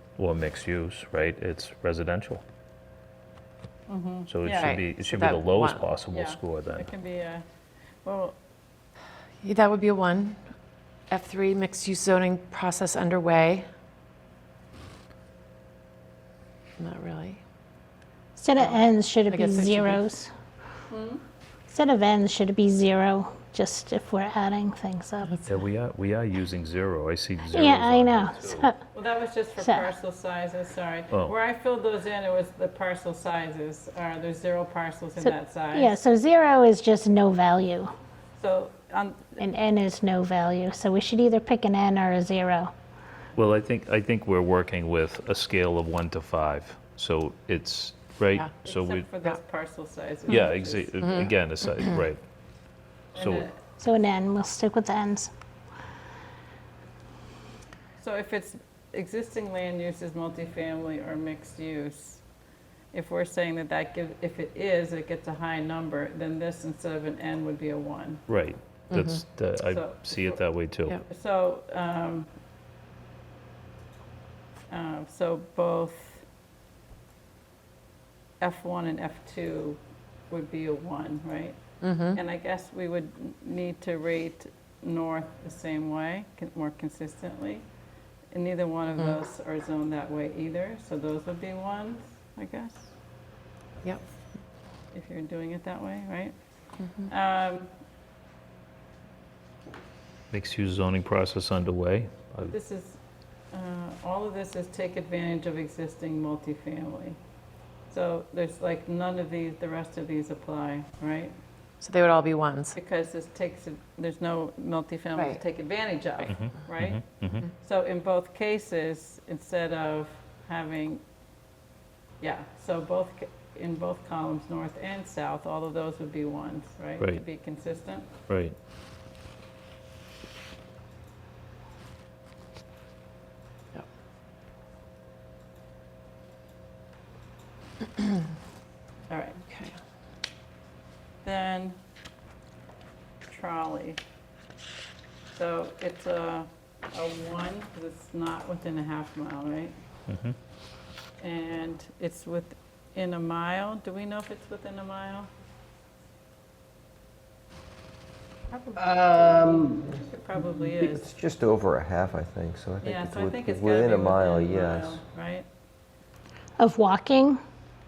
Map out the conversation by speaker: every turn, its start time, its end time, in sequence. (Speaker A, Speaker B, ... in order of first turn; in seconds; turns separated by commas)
Speaker A: 0.2-2.4, Speaker B: 3.9-4.8, Speaker A: 4.3-6.9, Speaker C: 4.5-5.9, Speaker B: 6.1-7.4, Speaker B: 8.0-8.4, Speaker C: 9.4-10.4, Speaker C: 11.1-13.7, Speaker C: 16.8-17.4, Speaker D: 18.4-20.3, Speaker C: 18.6-20.1, Speaker B: 20.9-21.2, Speaker D: 21.7-25.4, Speaker A: 25.5-28.7, Speaker D: 27.4-28.8, Speaker B: 28.9-36.0, Speaker D: 29.6-29.9, Speaker D: 35.2-37.9, Speaker B: 38.4-39.4, Speaker D: 39.4-42.7, Speaker A: 43.4-49.1, Speaker B: 48.6-51.3, Speaker A: 50.3-52.2, Speaker C: 51.0-52.0, Speaker A: 53.1-53.5, Speaker B: 53.1-53.6, Speaker D: 53.8-55.3, Speaker B: 58.0-62.2, Speaker B: 62.9-68.2, Speaker A: 68.3-71.0, Speaker C: 68.9-69.2, Speaker B: 69.7-70.4, Speaker B: 71.1-72.3, Speaker B: 74.7-76.3, Speaker B: 78.4-87.7, Speaker C: 81.8-82.2, Speaker B: 88.3-92.9, Speaker B: 94.9-96.4, Speaker C: 96.8-97.1, Speaker B: 97.1-97.7, Speaker A: 100.3-102.5, Speaker B: 102.5-103.0, Speaker B: 103.5-107.2, Speaker B: 107.9-111.3, Speaker C: 111.8-112.8, Speaker B: 112.8-121.0, Speaker A: 116.2-117.5, Speaker B: 122.2-128.1, Speaker A: 128.3-128.6, Speaker B: 139.1-139.4, Speaker C: 139.4-139.8, Speaker B: 141.2-141.8, Speaker B: 143.3-144.0, Speaker B: 145.3-149.8, Speaker A: 150.1-150.4, Speaker B: 151.2-155.3, Speaker B: 158.5-161.1, Speaker E: 160.8-165.0, Speaker B: 162.8-165.5, Speaker D: 166.6-167.4